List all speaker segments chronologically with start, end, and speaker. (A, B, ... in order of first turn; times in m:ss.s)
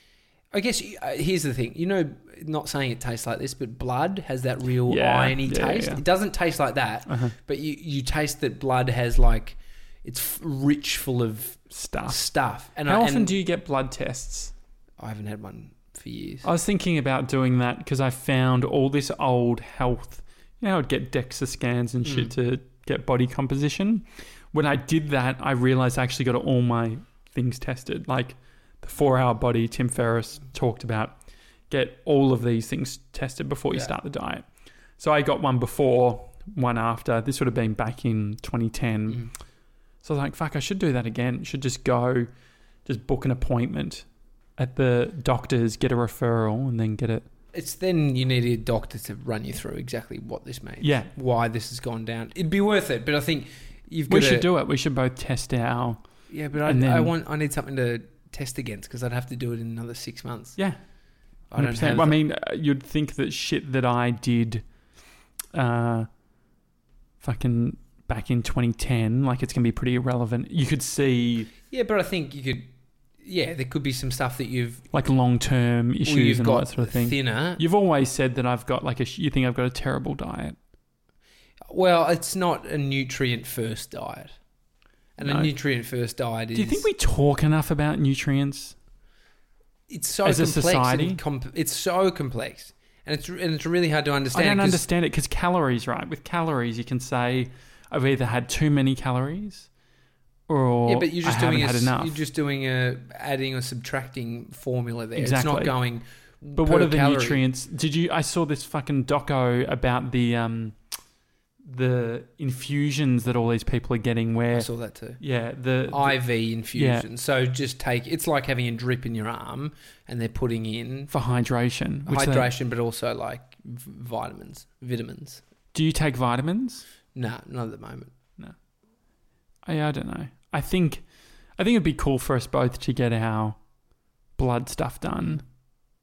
0:00.5-0:13.4 A
0:04.8-0:06.0 B
0:07.1-0:07.3 B
0:11.7-0:12.2 B
0:12.8-0:14.5 B
0:15.0-0:16.5 A
0:16.4-0:31.2 B
0:22.0-0:22.3 A
0:31.7-0:34.4 B
0:35.0-0:39.3 B
0:40.0-0:42.3 B
0:42.8-0:44.0 B
0:44.6-0:47.2 B
0:47.5-0:54.5 A
0:50.8-0:51.1 B
0:54.1-0:56.0 B
0:56.3-1:00.6 A
0:56.6-0:57.1 B
1:01.5-1:02.2 A
1:01.6-1:04.6 B
1:05.5-1:06.1 B
1:07.2-1:11.5 B
1:11.7-1:12.7 A
1:13.2-1:14.8 A
1:14.9-1:20.6 B
1:16.0-1:17.6 A
1:21.7-1:24.3 A
1:25.2-1:26.8 A
1:25.2-1:25.5 B
1:26.5-1:28.8 B
1:29.9-1:34.8 A
1:30.2-1:31.2 B
1:34.3-1:39.7 B
1:40.5-1:42.2 B
1:40.8-1:47.4 A
1:45.1-1:45.7 B
1:46.6-1:50.8 B
1:51.6-1:54.7 B
1:54.5-1:55.2 A
1:55.2-1:56.2 B
1:55.9-2:01.1 A
1:56.7-1:57.0 B
2:01.1-2:02.5 B
2:02.1-2:05.4 A
2:05.7-2:06.8 B
2:07.1-2:08.1 A
2:09.6-2:11.0 B
2:11.6-2:13.6 B
2:14.4-2:15.4 B